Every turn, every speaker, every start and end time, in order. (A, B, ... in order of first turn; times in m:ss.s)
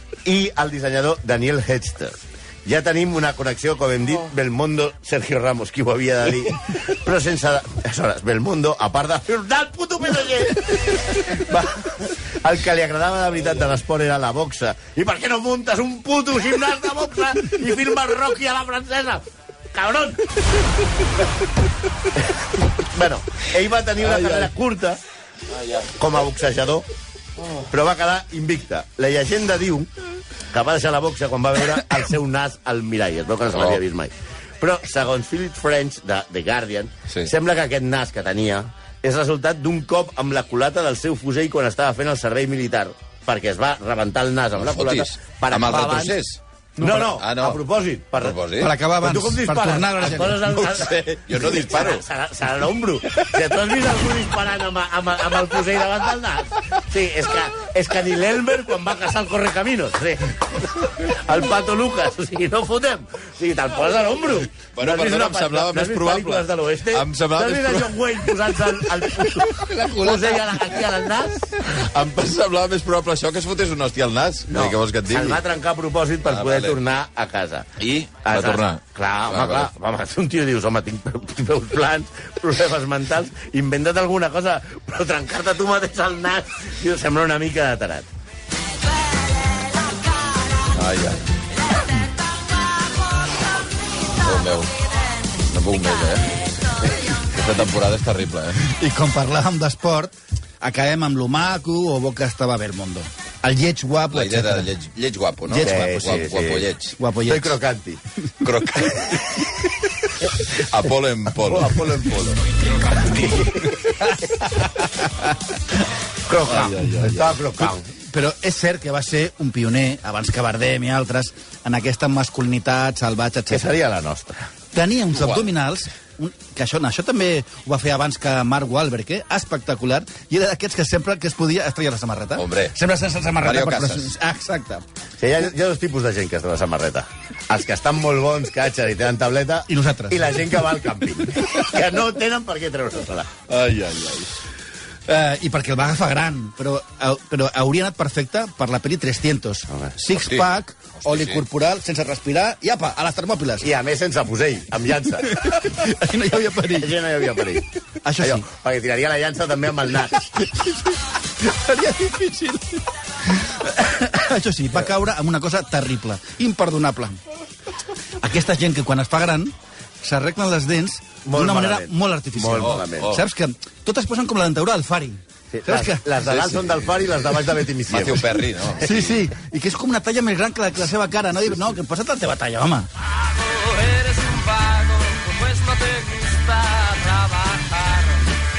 0:00.2-0:20.2 A
0:22.8-0:25.0 A
0:24.0-0:24.5 B
0:25.9-0:26.9 A
0:27.7-0:29.9 A
0:30.5-0:46.2 A
0:33.5-0:33.8 B
0:44.6-0:46.4 B
0:46.8-0:47.1 C
0:46.8-0:48.4 A
0:47.2-0:47.6 B
0:48.2-0:48.7 B
0:48.6-0:50.4 C
0:49.0-1:11.5 A
0:50.2-0:52.0 B
1:04.6-1:08.0 B
1:08.9-1:10.4 B
1:11.6-1:15.4 B
1:14.5-1:17.6 A
1:16.3-1:16.8 B
1:17.8-1:19.7 B
1:18.2-1:28.1 A
1:30.7-1:31.2 B
1:34.2-1:34.8 B
1:35.4-1:36.4 B
1:37.0-1:38.6 B
1:38.6-1:44.7 C
1:44.1-1:47.0 B
1:45.4-1:46.2 C
1:45.6-1:46.7 A
1:47.0-1:47.6 C
1:47.3-1:48.0 A
1:48.4-1:49.7 B
1:50.3-1:51.8 B
1:51.4-1:52.4 A
1:53.2-1:53.6 A
1:53.8-1:55.4 C
1:56.3-1:57.8 A
1:56.5-1:57.4 B
1:57.6-2:03.7 C
2:03.5-2:04.5 A
2:04.7-2:14.8 C
2:05.2-2:05.5 B
2:12.4-2:12.7 B
2:13.4-2:14.1 B
2:15.2-2:23.3 A
2:19.7-2:20.3 C
2:23.5-2:24.3 B
2:25.1-2:33.7 C
2:30.1-2:31.4 B
2:33.6-2:35.7 A
2:35.2-2:36.9 C
2:36.6-2:37.6 A
2:38.0-2:38.5 C
2:38.2-2:40.3 A
2:40.4-2:47.2 C
2:48.2-2:56.0 C
2:51.2-2:53.2 A
2:52.6-2:53.3 B
2:55.5-2:58.3 A
2:56.2-2:57.1 B
2:57.9-2:59.2 B
2:58.8-3:02.9 C
3:03.4-3:08.2 D